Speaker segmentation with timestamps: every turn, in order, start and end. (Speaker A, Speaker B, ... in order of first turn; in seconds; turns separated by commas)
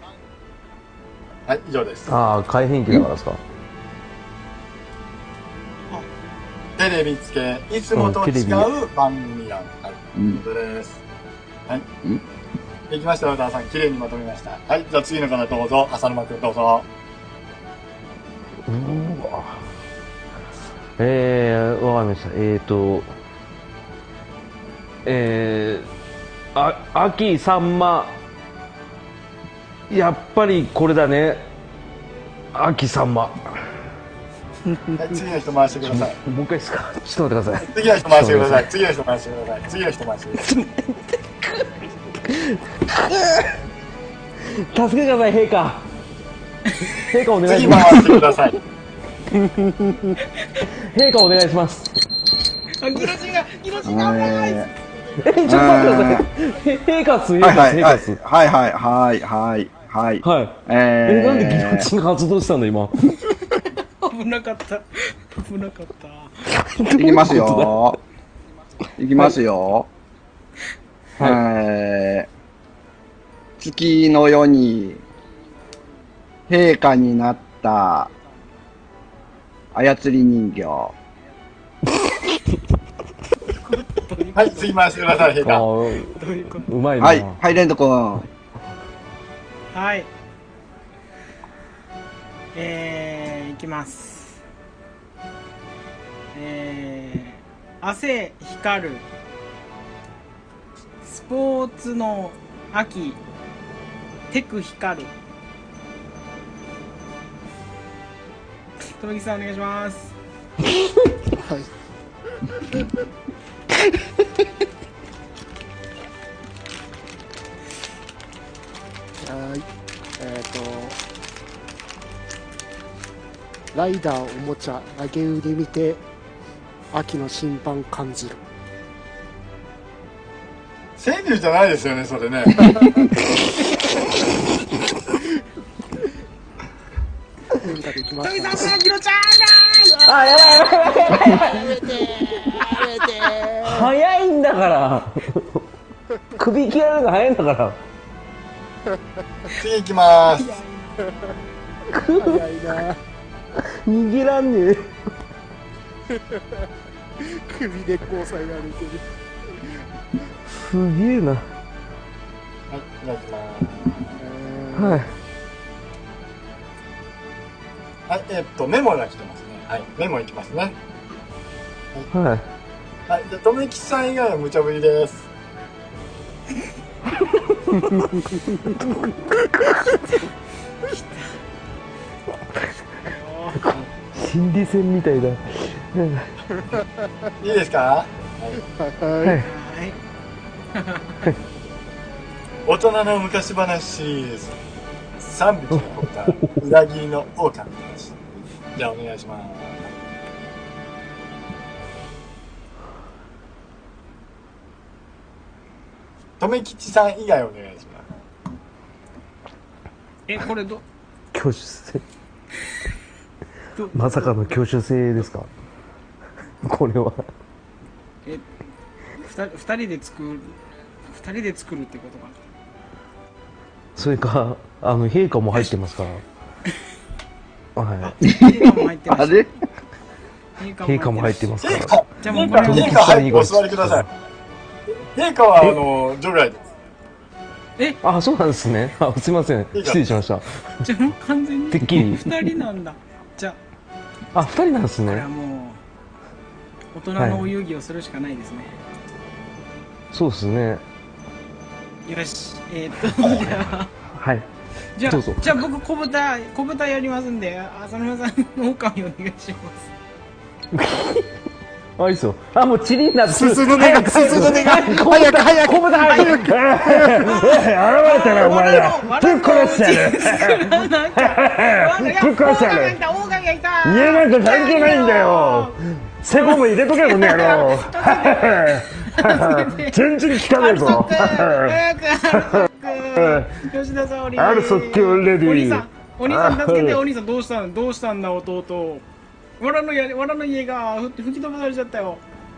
Speaker A: 1.5-2.3, Speaker B: 2.1-3.4, Speaker A: 6.8-11.0, Speaker B: 7.9-8.7, Speaker C: 10.1-10.4, Speaker A: 12.9-16.9, Speaker B: 18.6-19.6, Speaker B: 21.0-23.1, Speaker B: 25.0-25.9, Speaker B: 26.5-28.2, Speaker B: 29.9-31.4, Speaker B: 32.5-33.6, Speaker A: 35.0-36.2, Speaker B: 35.8-38.7, Speaker A: 37.6-40.5, Speaker B: 40.4-43.6, Speaker B: 44.5-45.9, Speaker B: 46.9-48.4, Speaker A: 47.4-48.6, Speaker D: 49.5-50.1, Speaker B: 50.7-51.9, Speaker E: 52.8-54.6, Speaker C: 53.8-54.7, Speaker B: 55.2-58.2, Speaker C: 55.4-56.3, Speaker C: 57.4-61.9, Speaker B: 60.2-63.0, Speaker E: 64.0-66.5, Speaker B: 66.5-68.0, Speaker C: 66.9-68.0, Speaker C: 69.0-69.9, Speaker C: 71.2-72.3, Speaker C: 73.6-75.0, Speaker C: 76.5-78.1, Speaker C: 79.7-80.9, Speaker E: 83.6-85.3, Speaker A: 84.3-85.7, Speaker B: 85.4-87.4, Speaker E: 86.1-86.7, Speaker C: 87.0-88.3, Speaker E: 89.7-90.1, Speaker E: 92.5-94.4, Speaker E: 96.3-99.0, Speaker E: 101.0-103.2, Speaker E: 104.3-105.1, Speaker E: 108.8-110.1, Speaker D: 111.3-111.7, Speaker D: 119.2-119.7, Speaker D: 120.2-121.0, Speaker D: 123.7-126.0, Speaker D: 126.9-128.4, Speaker A: 131.0-132.9, Speaker D: 137.6-138.8, Speaker E: 138.2-141.7, Speaker B: 140.0-141.8, Speaker D: 141.1-143.9, Speaker B: 143.6-145.7, Speaker B: 146.3-147.8, Speaker A: 149.6-150.6, Speaker E: 150.3-151.0, Speaker B: 151.9-152.8, Speaker D: 151.9-153.0, Speaker B: 153.6-154.9, Speaker D: 156.1-156.6, Speaker D: 157.2-159.8, Speaker B: 160.5-161.5, Speaker A: 162.7-164.2, Speaker D: 164.2-165.1, Speaker B: 164.7-165.1, Speaker A: 168.1-170.8, Speaker B: 172.1-172.4, Speaker A: 173.1-175.3, Speaker E: 179.8-180.3, Speaker E: 180.8-181.3, Speaker E: 183.1-183.8, Speaker B: 183.6-186.3, Speaker A: 187.4-188.6, Speaker D: 188.8-189.4, Speaker B: 189.2-189.5, Speaker E: 189.3-190.0, Speaker E: 190.7-191.3, Speaker A: 192.7-194.6, Speaker A: 195.2-199.9, Speaker B: 196.3-196.6, Speaker A: 206.4-208.1, Speaker E: 210.3-210.8, Speaker B: 211.3-212.0, Speaker E: 213.7-214.6, Speaker B: 213.9-215.5, Speaker B: 216.6-217.3, Speaker E: 219.2-222.4, Speaker B: 223.9-226.2, Speaker B: 227.8-228.1, Speaker E: 228.0-229.4, Speaker C: 228.2-229.6, Speaker E: 230.6-231.5, Speaker B: 230.8-234.1, Speaker A: 231.6-234.1, Speaker E: 232.2-233.2, Speaker A: 235.0-236.7, Speaker B: 238.0-240.8, Speaker A: 239.7-240.0, Speaker E: 240.8-243.6, Speaker B: 241.7-242.4, Speaker B: 244.3-245.2, Speaker E: 245.1-245.8, Speaker E: 246.9-248.7, Speaker B: 247.2-247.5, Speaker B: 250.1-250.8, Speaker E: 252.0-253.9, Speaker B: 254.2-254.5, Speaker E: 254.9-259.8, Speaker B: 255.1-255.6, Speaker B: 260.7-261.3, Speaker B: 262.0-273.0, Speaker D: 263.3-267.3, Speaker E: 264.5-264.8, Speaker E: 266.0-266.4, Speaker E: 267.2-289.0, Speaker B: 273.8-283.6, Speaker B: 284.3-287.0, Speaker E: 289.6-292.2